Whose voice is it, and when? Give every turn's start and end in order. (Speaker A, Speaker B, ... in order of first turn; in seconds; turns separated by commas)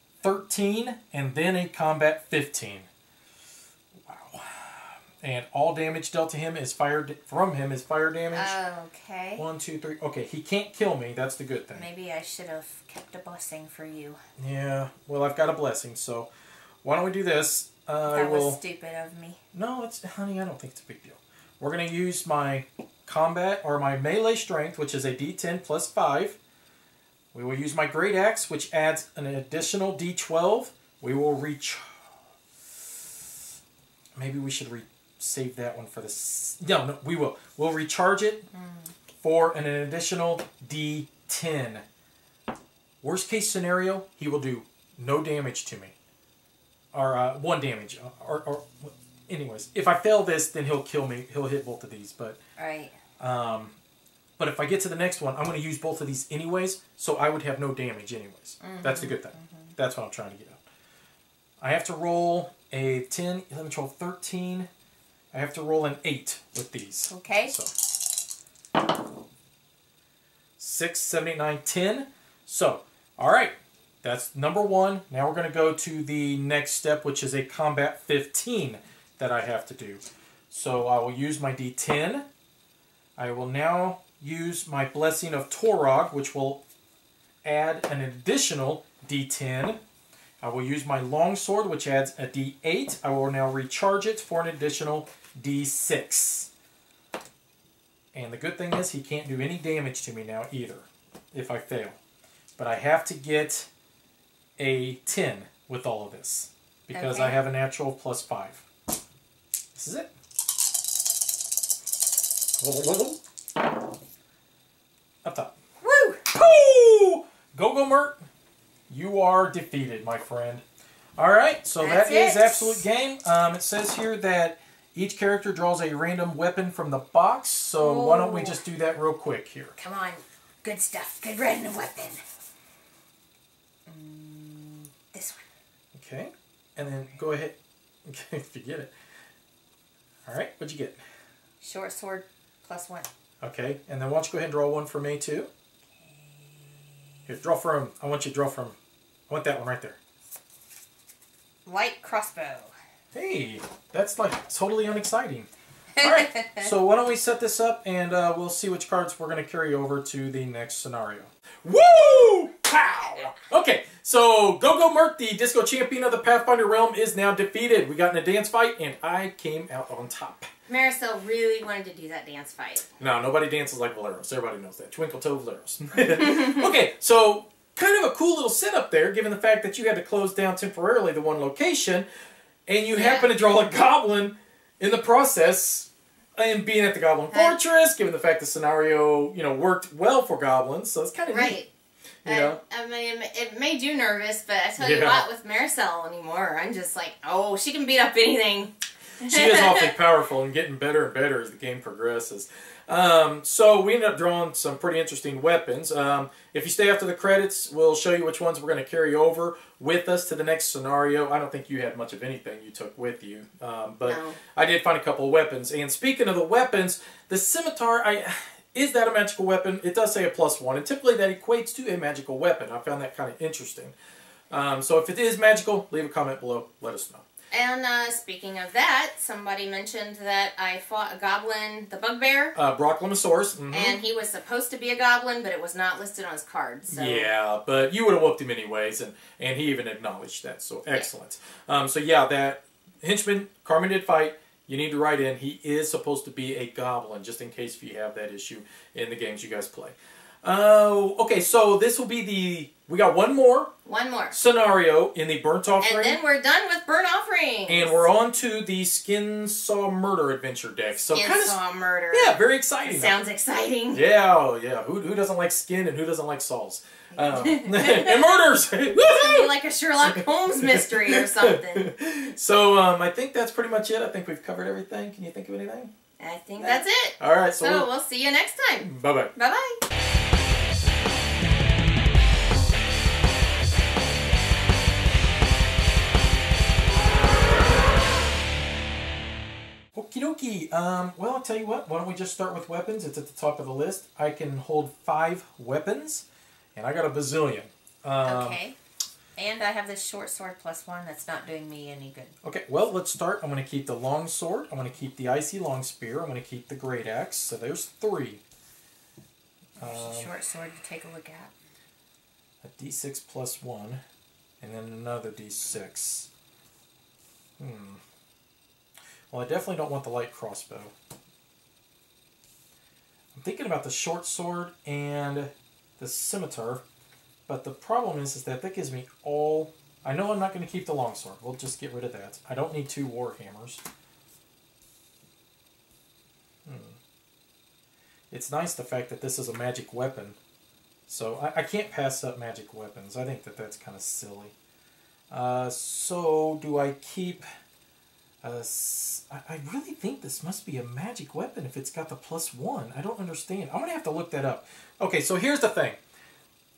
Speaker A: 0.2-2.9, Speaker A: 4.0-8.6, Speaker B: 8.3-9.4, Speaker A: 9.4-11.9, Speaker B: 11.7-14.2, Speaker A: 14.4-16.3, Speaker A: 16.8-18.6, Speaker B: 18.1-19.4, Speaker A: 19.5-26.4, Speaker A: 27.3-31.9, Speaker A: 34.2-38.5, Speaker B: 38.5-38.9, Speaker A: 39.2-41.8, Speaker A: 43.0-45.9, Speaker A: 46.9-52.4, Speaker B: 52.6-52.9, Speaker A: 53.2-53.7, Speaker A: 54.4-60.6, Speaker B: 58.6-59.7, Speaker A: 61.6-64.7, Speaker A: 65.3-67.7, Speaker B: 67.1-67.5, Speaker A: 70.6-82.2, Speaker A: 83.2-86.6, Speaker A: 87.4-89.8, Speaker A: 90.4-96.5, Speaker A: 98.1-102.0, Speaker A: 102.6-103.7, Speaker A: 104.6-108.7, Speaker B: 106.9-107.4, Speaker A: 109.7-110.1, Speaker A: 112.6-113.2, Speaker A: 115.2-115.5, Speaker B: 115.8-116.2, Speaker A: 116.3-118.2, Speaker A: 118.9-120.6, Speaker A: 121.2-129.7, Speaker B: 121.8-122.8, Speaker B: 127.8-128.6, Speaker B: 129.8-132.2, Speaker B: 133.9-135.4, Speaker A: 135.9-138.9, Speaker A: 140.2-141.0, Speaker B: 141.6-143.1, Speaker A: 143.4-145.5, Speaker B: 145.9-147.0, Speaker A: 147.3-148.8, Speaker A: 149.3-150.0, Speaker B: 151.7-152.7, Speaker A: 153.1-170.5, Speaker B: 156.0-156.7, Speaker B: 170.7-172.9, Speaker A: 173.0-182.1, Speaker B: 176.2-176.6, Speaker A: 182.7-191.6, Speaker B: 182.9-183.3, Speaker B: 187.3-187.6, Speaker B: 191.3-191.7, Speaker A: 192.2-192.6, Speaker B: 192.2-199.9, Speaker A: 194.8-195.3, Speaker A: 199.2-223.9, Speaker B: 214.1-214.4, Speaker A: 224.5-227.2, Speaker B: 227.5-232.5, Speaker A: 232.5-234.0, Speaker B: 233.7-237.3, Speaker A: 236.9-253.7, Speaker B: 253.8-254.4, Speaker A: 254.3-256.2, Speaker B: 255.8-258.1, Speaker A: 257.7-261.6, Speaker B: 261.1-264.0, Speaker A: 262.1-263.2, Speaker A: 263.9-275.9, Speaker B: 267.1-268.4, Speaker B: 268.9-271.9, Speaker B: 276.2-279.8, Speaker A: 276.6-277.9, Speaker A: 278.8-279.3, Speaker A: 289.9-298.6, Speaker B: 298.2-298.8, Speaker B: 299.4-302.3, Speaker A: 302.4-308.4, Speaker A: 309.8-310.3, Speaker B: 309.8-311.5, Speaker A: 312.6-314.0, Speaker A: 314.6-316.3, Speaker A: 317.6-318.0, Speaker A: 319.3-320.9, Speaker A: 323.3-326.8, Speaker A: 327.5-333.8, Speaker A: 336.6-337.0, Speaker A: 338.3-340.4, Speaker A: 341.1-344.5, Speaker A: 345.3-347.4, Speaker A: 348.4-356.0